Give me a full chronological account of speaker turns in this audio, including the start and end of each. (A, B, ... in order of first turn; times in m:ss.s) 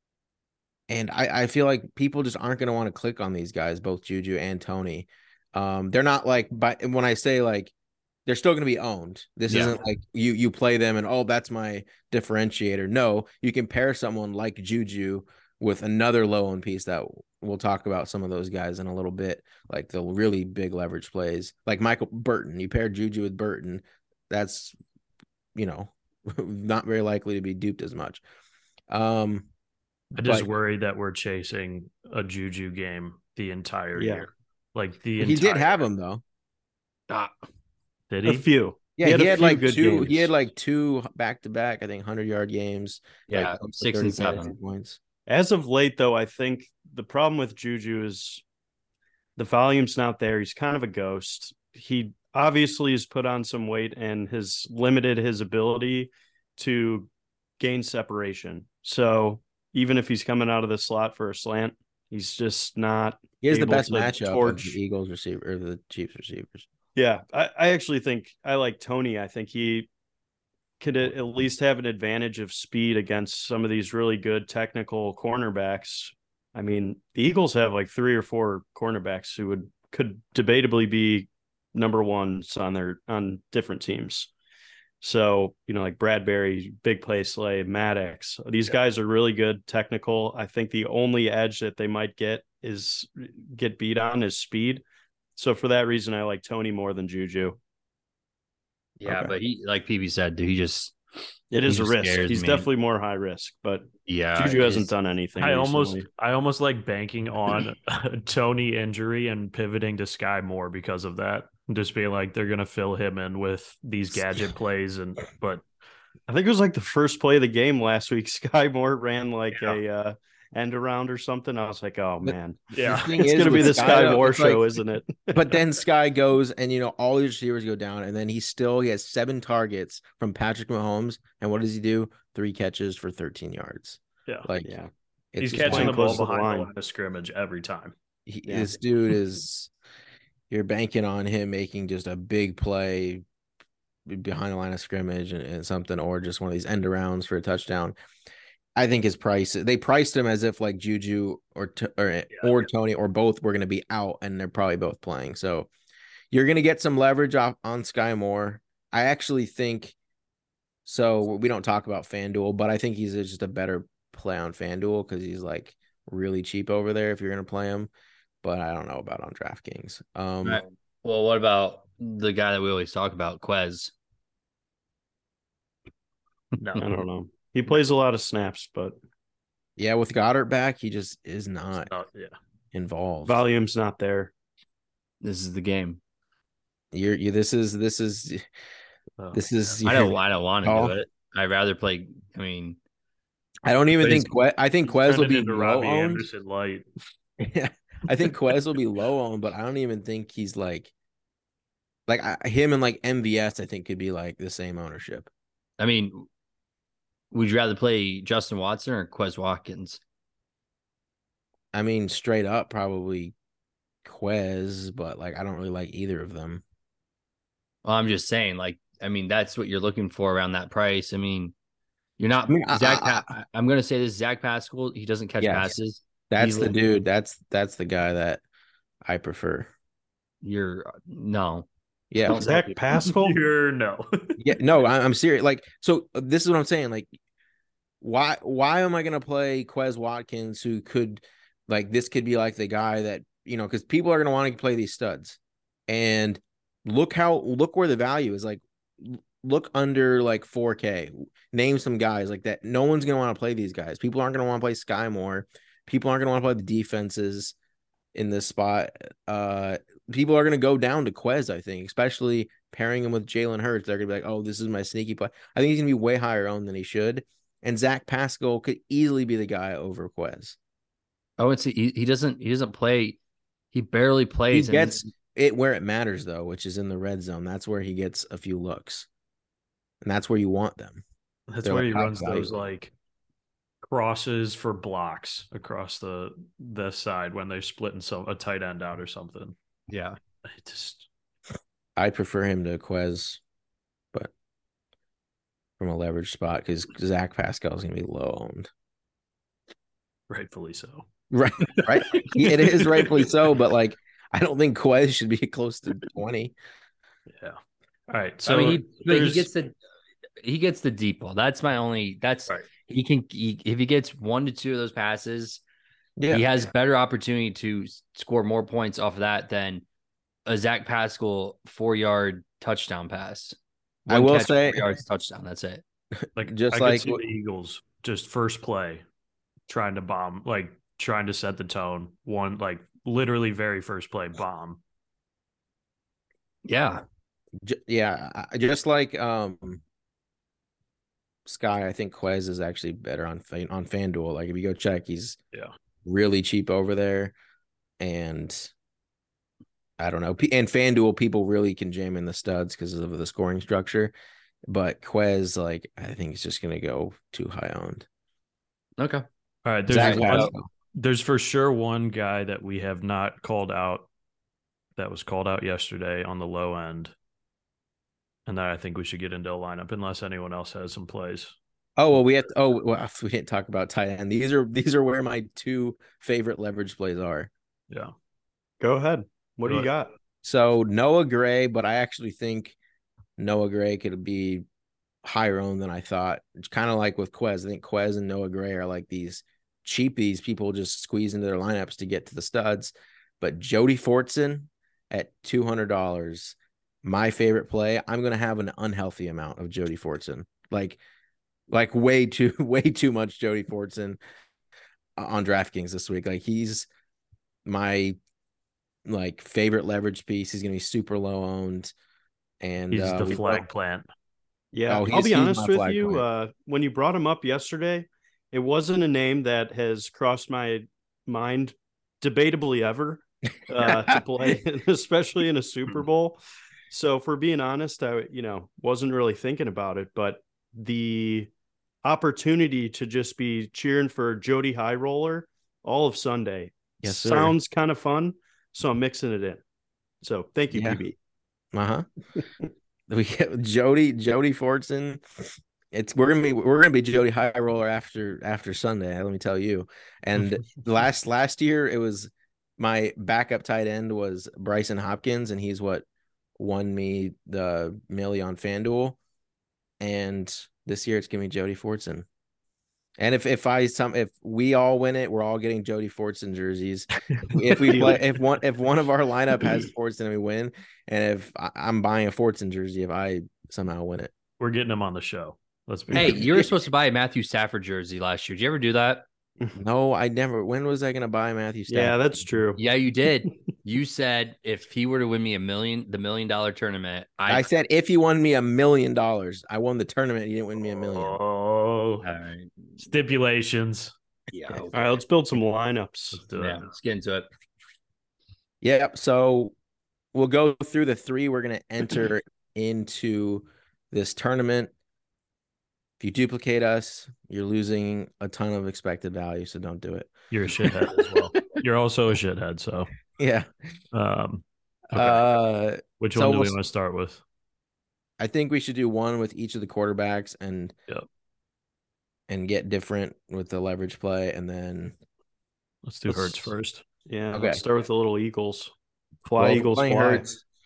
0:00.9-0:07.7 A
0:08.2-0:24.8 A
0:09.5-0:09.8 B
0:25.6-0:28.2 A
0:28.9-0:29.5 A
0:30.1-0:30.5 A
0:30.2-0:35.8 C
0:33.9-0:34.3 D
0:35.2-0:36.2 A
0:38.1-0:38.4 C
0:38.2-0:40.3 D
0:39.0-0:45.0 A
0:43.3-0:44.5 B
0:45.3-0:48.4 D
0:49.4-1:04.8 D
1:03.4-1:06.6 A
1:06.9-1:09.9 D
1:10.8-1:24.3 D
1:25.0-1:34.8 D
1:35.4-1:37.6 D
1:39.0-1:39.3 A
1:39.0-1:41.0 B
1:41.5-1:46.1 D
1:41.6-1:42.7 B
1:44.1-1:44.9 B
1:45.4-1:55.6 C
1:56.3-2:05.6 D
1:59.5-1:59.8 C
2:02.7-2:04.1 C
2:02.8-2:04.6 A
2:05.3-2:14.7 A
2:14.6-2:14.9 D
2:15.3-2:16.0 A
2:15.4-2:17.9 C
2:15.4-2:16.7 D
2:18.3-2:19.7 A
2:18.4-2:18.7 D
2:20.5-2:23.2 A
2:24.1-2:27.9 A
2:28.8-2:35.7 A
2:36.3-2:39.9 A
2:40.8-2:47.9 A
2:48.4-2:50.6 A
2:50.4-2:53.9 B
2:56.6-2:56.9 C
2:56.8-2:59.0 D
2:59.8-3:01.9 A
3:01.9-3:02.4 C
3:02.7-3:03.4 A
3:03.2-3:04.3 D
3:05.2-3:06.0 B
3:06.9-3:08.4 A
3:09.2-3:09.4 C
3:09.3-3:11.0 A
3:09.8-3:12.8 B
3:13.6-3:16.3 A
3:14.8-3:16.9 C
3:17.4-3:20.9 A
3:22.1-3:25.3 A
3:25.8-3:26.3 B
3:27.3-3:30.0 B
3:31.7-3:33.3 A
3:34.0-3:36.6 A
3:37.8-3:41.5 B
3:42.2-3:46.7 B
3:42.5-3:43.2 A
3:45.4-3:45.7 A
3:46.3-3:48.4 A
3:49.0-3:49.7 A
3:50.4-3:51.7 B
3:52.1-3:52.5 A
3:52.2-3:52.8 B
3:52.3-3:53.4 D
3:52.9-3:54.4 C
3:54.4-3:57.1 A
3:58.0-4:17.6 A
4:18.1-4:30.6 A
4:31.4-4:33.2 B
4:33.7-4:35.0 B
4:34.5-4:39.1 A
4:40.0-4:41.0 A
4:41.5-4:42.9 C
4:41.6-4:42.6 A
4:43.8-4:49.6 C
4:49.9-4:50.2 B
4:50.4-4:51.1 C
4:52.0-4:53.4 A
4:55.8-4:58.7 A
5:00.3-5:01.1 C
5:01.3-5:06.6 A
5:01.6-5:03.3 C
5:07.3-5:09.5 C
5:08.4-5:09.7 B
5:10.4-5:15.6 B
5:16.2-5:16.4 A
5:16.3-5:19.8 B
5:20.4-5:25.8 B
5:24.1-5:24.9 A
5:26.2-5:27.2 A
5:26.4-5:29.0 C
5:29.7-5:34.8 C
5:36.6-5:37.0 B
5:37.6-5:39.8 A
5:41.4-5:45.4 A
5:46.1-5:47.4 A
5:48.0-5:48.7 A
5:50.0-5:54.1 A
5:54.7-5:58.1 A
5:59.0-5:59.2 B
5:59.6-6:04.1 C
5:59.9-6:00.6 A
5:59.9-6:00.5 B
6:05.0-6:07.1 C
6:08.4-6:11.6 C
6:12.0-6:17.5 A
6:18.8-6:20.1 D
6:20.4-6:22.8 A
6:23.4-6:24.6 A
6:25.2-6:41.0 A
6:41.7-6:44.2 A
6:45.2-6:46.9 A
6:47.6-6:48.2 A
6:49.1-6:51.9 A
6:52.6-6:53.6 A
6:52.9-6:54.1 C
6:54.7-7:06.4 D
6:54.9-6:56.2 A
7:03.8-7:04.5 A
7:06.9-7:11.5 D
7:12.0-7:19.6 D
7:17.0-7:17.6 A
7:20.2-7:21.2 D
7:20.7-7:21.0 A
7:21.7-7:22.1 A
7:23.1-7:36.0 A
7:36.6-7:39.2 A
7:40.0-7:42.3 A
7:43.2-7:54.3 A
7:47.8-7:48.2 D
7:54.6-7:56.5 C
7:56.1-7:59.2 B
7:59.8-8:02.2 A
8:01.9-8:02.8 D
8:02.8-8:07.6 B
8:07.5-8:11.4 A
8:11.0-8:12.2 C
8:12.2-8:13.0 B
8:13.0-8:14.1 C
8:14.5-8:15.1 B
8:14.7-8:14.9 A
8:14.9-8:16.4 D
8:16.3-8:16.9 C
8:16.5-8:17.5 B
8:18.8-8:19.7 A
8:20.3-8:24.9 A
8:26.2-8:31.3 A
8:30.5-8:33.1 C
8:33.4-8:33.7 A
8:34.1-8:35.4 C
8:35.1-8:36.7 A
8:36.2-8:37.4 C
8:38.4-8:40.9 A
8:42.5-8:45.2 A
8:46.0-8:47.0 C
8:46.3-8:46.7 A
8:47.2-8:48.9 D
8:47.5-8:47.8 A
8:49.4-8:50.4 D
8:49.6-8:50.6 A